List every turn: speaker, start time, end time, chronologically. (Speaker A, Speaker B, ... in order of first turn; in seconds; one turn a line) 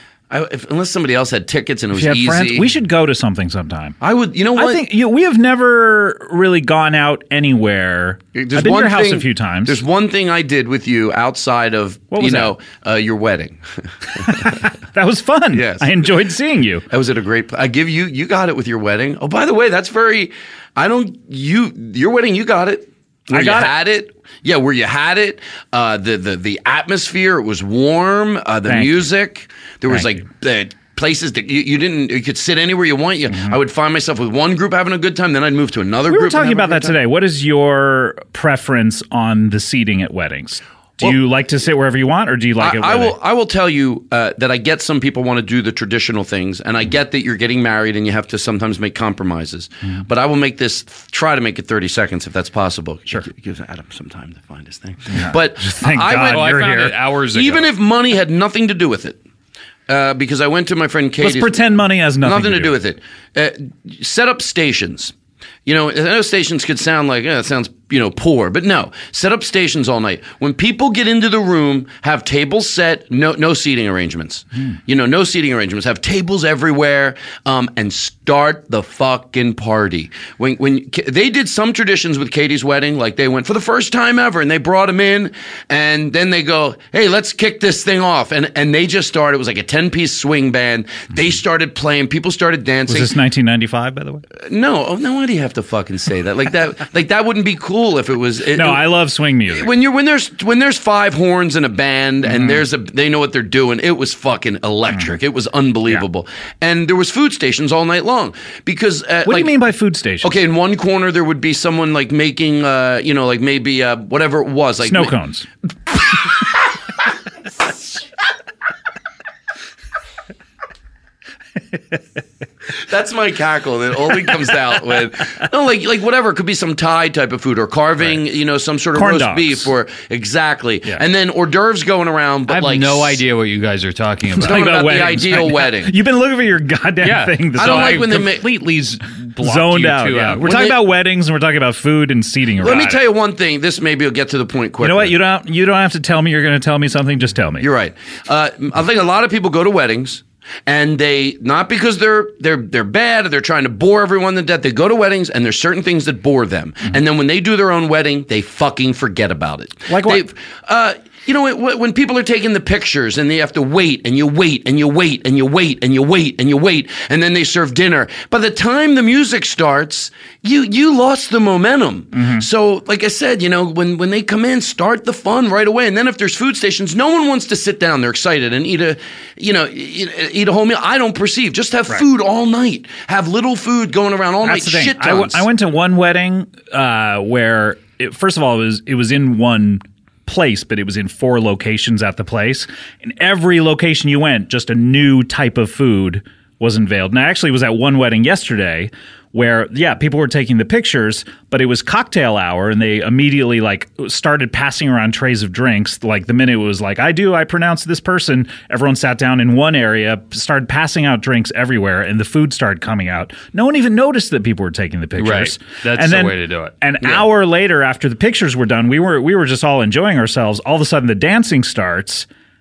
Speaker A: 0.3-2.7
Speaker B: 1.9-4.0
Speaker A: 4.0-4.8
Speaker B: 4.5-9.8
Speaker A: 8.3-14.6
Speaker B: 12.1-12.5
Speaker B: 14.2-16.9
Speaker A: 15.5-16.0
Speaker A: 16.9-37.0
Speaker B: 23.3-23.7
Speaker B: 28.6-29.1
Speaker B: 29.9-30.2
Speaker B: 33.3-33.5
Speaker B: 36.1-43.1
Speaker A: 42.6-56.6
Speaker B: 55.1-56.9
Speaker C: 56.1-57.7
Speaker A: 57.3-59.2
Speaker A: 59.9-61.6
Speaker B: 61.2-62.8
Speaker A: 62.2-65.1
Speaker A: 65.7-93.1
Speaker B: 92.9-94.2
Speaker A: 94.4-98.8
Speaker B: 98.5-99.7
Speaker A: 99.5-109.6
Speaker B: 102.2-102.6
Speaker B: 109.2-110.4
Speaker A: 110.2-115.1
Speaker B: 114.8-115.5
Speaker A: 122.8-133.2
Speaker B: 128.9-129.7
Speaker C: 132.5-134.7
Speaker B: 134.3-138.3
Speaker A: 134.4-135.9
Speaker C: 137.0-140.5
Speaker A: 137.6-138.4
Speaker B: 139.4-143.0
Speaker A: 140.4-140.8
Speaker A: 142.6-145.1
Speaker B: 144.8-147.7
Speaker A: 147.6-185.4
Speaker B: 159.9-160.2
Speaker B: 172.1-172.4
Speaker B: 184.4-222.3
Speaker C: 215.2-216.8